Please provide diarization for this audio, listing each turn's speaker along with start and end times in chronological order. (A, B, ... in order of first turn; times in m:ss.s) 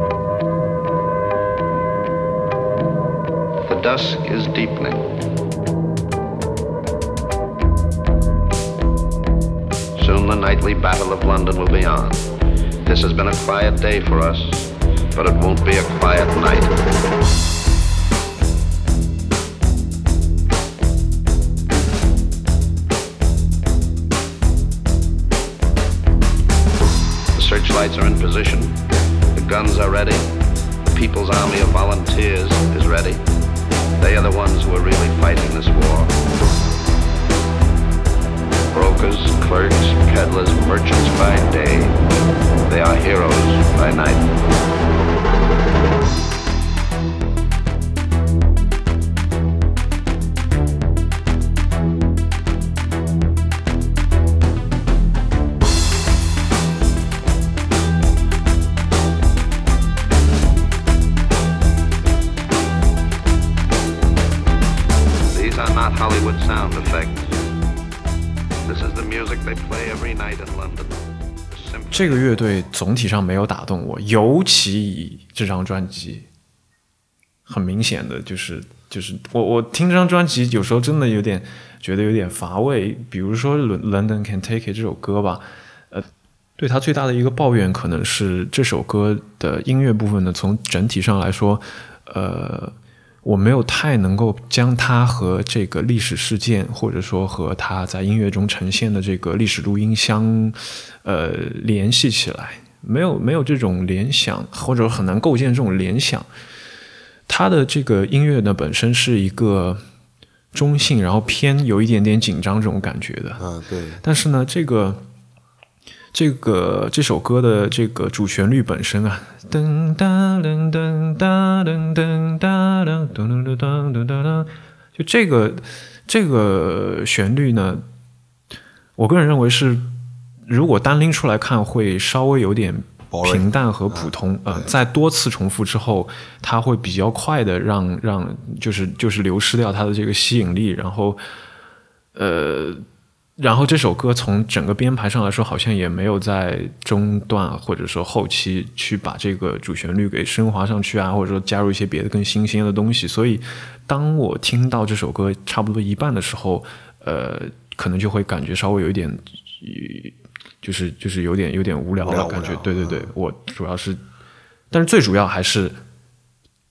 0:03.7-0:05.1 A
0:10.0-0:12.2 A
0:12.9-0:16.8 A
0:27.4-0:28.8 A
0:29.3-0:30.3 A
0:30.9-0:33.2 A
0:34.0-0:36.1 A
0:38.7-0:42.0 A
0:42.7-0:44.3 A
1:05.3-1:07.3 A
1:08.7-1:11.0 A
1:11.5-1:12.3 A
1:11.9-1:16.3 B
1:17.5-1:26.1 B
1:26.6-1:46.3 B
1:47.3-1:49.8 B
1:50.5-1:53.4 B
1:53.4-1:54.0 C
1:54.0-1:55.0 B
1:56.1-2:07.8 B
2:09.0-2:09.9 B
2:10.5-2:21.2 B
2:13.1-2:14.8 C
2:22.2-2:22.8 B
2:23.4-2:44.0 B
2:42.0-2:43.1 C
2:44.7-2:45.8 B